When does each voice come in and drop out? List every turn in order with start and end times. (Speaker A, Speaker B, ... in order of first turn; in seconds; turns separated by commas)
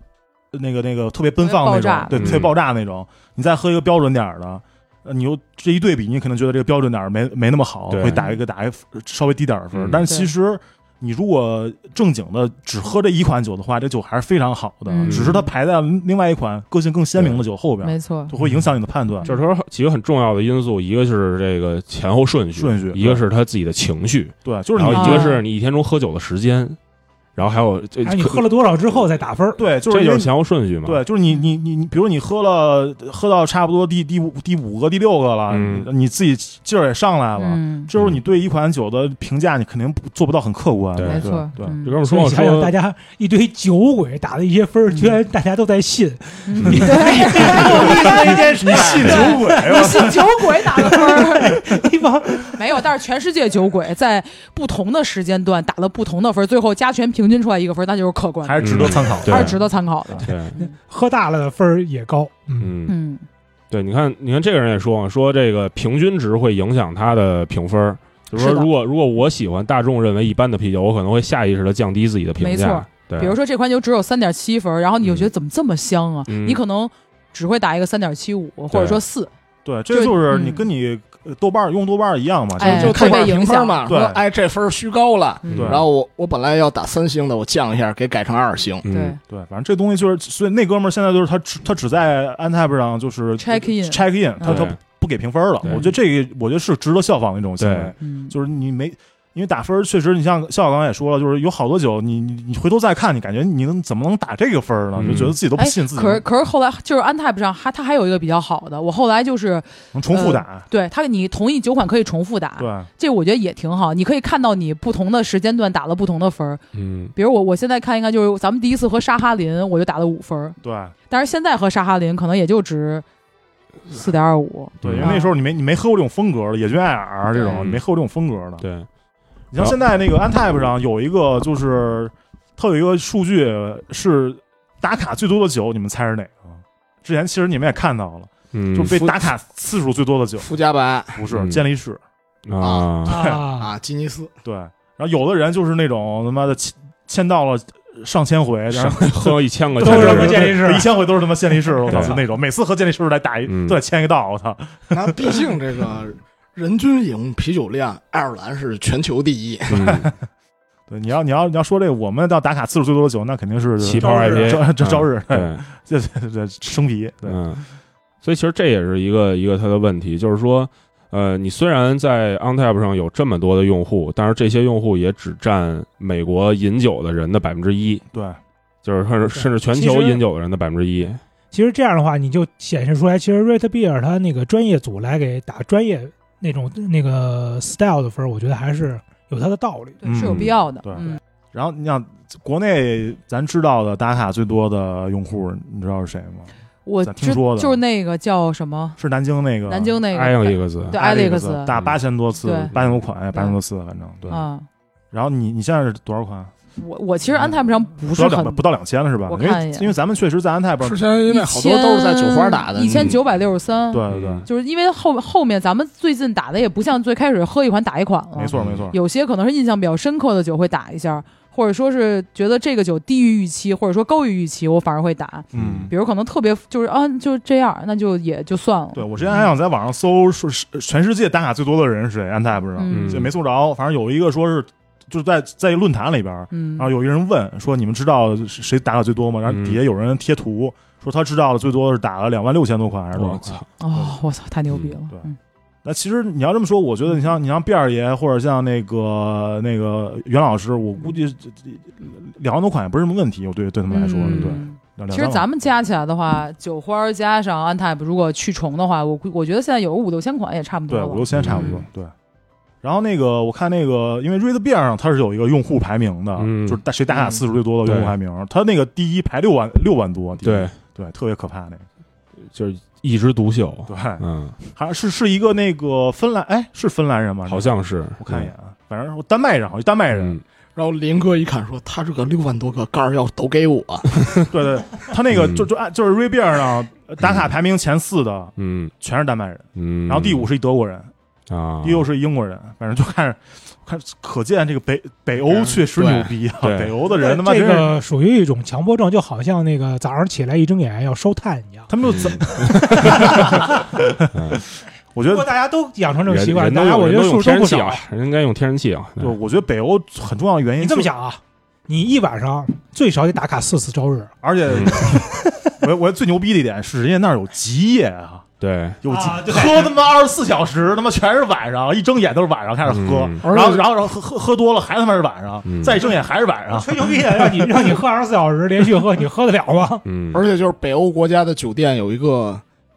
Speaker A: 0.5-19.3, Speaker B: 1.4-2.4, Speaker C: 2.1-2.5, Speaker C: 7.9-8.2, Speaker B: 8.1-8.4, Speaker C: 9.7-10.1, Speaker B: 14.8-15.5, Speaker C: 15.1-15.4, Speaker B: 17.8-18.3, Speaker C: 19.2-26.8, Speaker A: 22.6-23.2, Speaker A: 24.4-25.3, Speaker B: 24.9-25.4, Speaker C: 27.4-29.0, Speaker D: 28.0-29.6, Speaker A: 29.6-30.3, Speaker C: 29.9-31.0, Speaker A: 30.8-41.7, Speaker C: 35.5-35.9, Speaker B: 37.4-37.9, Speaker C: 41.0-41.3, Speaker B: 41.0-41.9, Speaker C: 41.8-42.7, Speaker D: 42.0-50.1, Speaker B: 46.5-51.6, Speaker C: 46.6-46.9, Speaker A: 48.3-50.4, Speaker D: 50.8-52.6, Speaker B: 52.5-60.7, Speaker A: 58.4-59.6, Speaker C: 58.6-59.6, Speaker C: 60.2-60.5, Speaker D: 60.6-62.7, Speaker C: 62.6-62.9, Speaker B: 62.9-63.2, Speaker C: 63.7-73.4, Speaker B: 68.3-68.7, Speaker B: 72.4-79.3, Speaker C: 75.0-75.3, Speaker C: 76.3-76.6, Speaker C: 78.7-79.0, Speaker A: 79.6-84.2, Speaker B: 79.9-80.7, Speaker B: 82.6-83.8, Speaker E: 82.6-88.8, Speaker C: 85.5-85.8, Speaker A: 85.5-85.8, Speaker C: 88.8-89.2, Speaker B: 88.9-89.2, Speaker A: 89.3-106.2, Speaker B: 93.4-94.7, Speaker C: 94.4-94.8, Speaker B: 95.6-95.9, Speaker C: 97.6-97.9, Speaker B: 98.0-98.3, Speaker C: 105.0-105.3, Speaker B: 105.5-116.6, Speaker A: 109.9-110.7, Speaker A: 112.6-112.9, Speaker C: 116.7-117.1, Speaker B: 117.1-120.6, Speaker A: 120.6-120.9, Speaker B: 121.1-123.0, Speaker B: 123.9-125.3, Speaker C: 124.8-125.2, Speaker A: 124.8-128.6, Speaker B: 127.3-127.7, Speaker C: 127.5-127.8, Speaker C: 128.6-128.9, Speaker A: 129.5-140.5, Speaker C: 138.5-139.1, Speaker E: 140.4-141.2, Speaker A: 141.1-142.0, Speaker C: 141.3-141.6, Speaker C: 142.5-143.1, Speaker E: 142.6-144.3, Speaker D: 143.1-143.7, Speaker A: 143.1-143.4, Speaker A: 144.4-155.4, Speaker C: 148.7-150.5, Speaker D: 149.8-150.9, Speaker C: 151.9-152.2, Speaker C: 153.5-153.8, Speaker E: 154.9-159.8, Speaker A: 159.7-160.2, Speaker C: 159.7-160.1, Speaker A: 160.9-167.4, Speaker C: 163.8-165.6, Speaker D: 163.9-164.6, Speaker C: 167.2-167.7, Speaker C: 168.2-178.0, Speaker A: 178.1-178.4, Speaker C: 178.8-181.2, Speaker D: 179.3-180.2, Speaker D: 181.5-190.0, Speaker B: 190.0-191.2, Speaker A: 190.0-196.5, Speaker C: 190.2-190.5, Speaker B: 196.8-199.0, Speaker A: 197.0-197.8, Speaker A: 199.0-200.0, Speaker B: 199.7-201.7, Speaker C: 200.1-201.0, Speaker A: 200.9-204.4, Speaker C: 201.7-202.0, Speaker B: 202.4-202.7, Speaker C: 202.7-203.0, Speaker B: 204.3-204.7, Speaker A: 205.1-206.5, Speaker B: 206.8-208.6, Speaker A: 208.0-211.0, Speaker B: 209.3-209.9, Speaker E: 210.8-213.2, Speaker B: 211.3-229.5, Speaker A: 213.9-214.4, Speaker C: 214.1-214.5, Speaker A: 218.3-219.0, Speaker C: 218.5-218.9, Speaker A: 225.5-225.9, Speaker C: 225.5-225.9, Speaker A: 228.9-244.2, Speaker B: 232.8-233.3, Speaker C: 232.9-233.3, Speaker B: 236.5-236.9, Speaker C: 239.5-239.8, Speaker C: 243.1-243.6, Speaker B: 243.8-245.3, Speaker A: 245.8-255.5, Speaker B: 253.9-261.8, Speaker C: 254.3-254.6, Speaker A: 260.9-262.1, Speaker C: 261.3-261.8, Speaker A: 262.8-271.8, Speaker C: 266.4-266.8, Speaker C: 267.8-268.1, Speaker C: 270.4-270.7, Speaker C: 272.5-274.6, Speaker A: 273.9-280.4, Speaker C: 277.5-278.5, Speaker C: 280.1-280.4, Speaker E: 280.8-284.4, Speaker A: 284.5-291.1, Speaker C: 285.3-285.6, Speaker C: 287.2-287.5, Speaker C: 288.6-288.9, Speaker C: 289.8-290.5, Speaker C: 291.5-292.1, Speaker A: 291.8-298.0, Speaker E: 295.9-296.3, Speaker C: 296.6-296.9, Speaker D: 297.1-301.9, Speaker A: 301.9-304.3, Speaker C: 302.0-303.4, Speaker D: 302.5-303.8, Speaker C: 304.3-304.6, Speaker A: 305.1-305.5, Speaker D: 305.3-308.0, Speaker C: 306.2-309.4, Speaker A: 309.2-311.1, Speaker D: 310.8-314.3, Speaker A: 314.4-318.5, Speaker C: 314.7-315.2, Speaker C: 318.6-319.0, Speaker A: 319.0-327.9, Speaker D: 319.1-319.9, Speaker C: 322.9-323.4, Speaker E: 323.4-323.9, Speaker C: 325.6-326.0, Speaker D: 326.7-330.0, Speaker C: 330.0-330.4, Speaker E: 330.3-332.6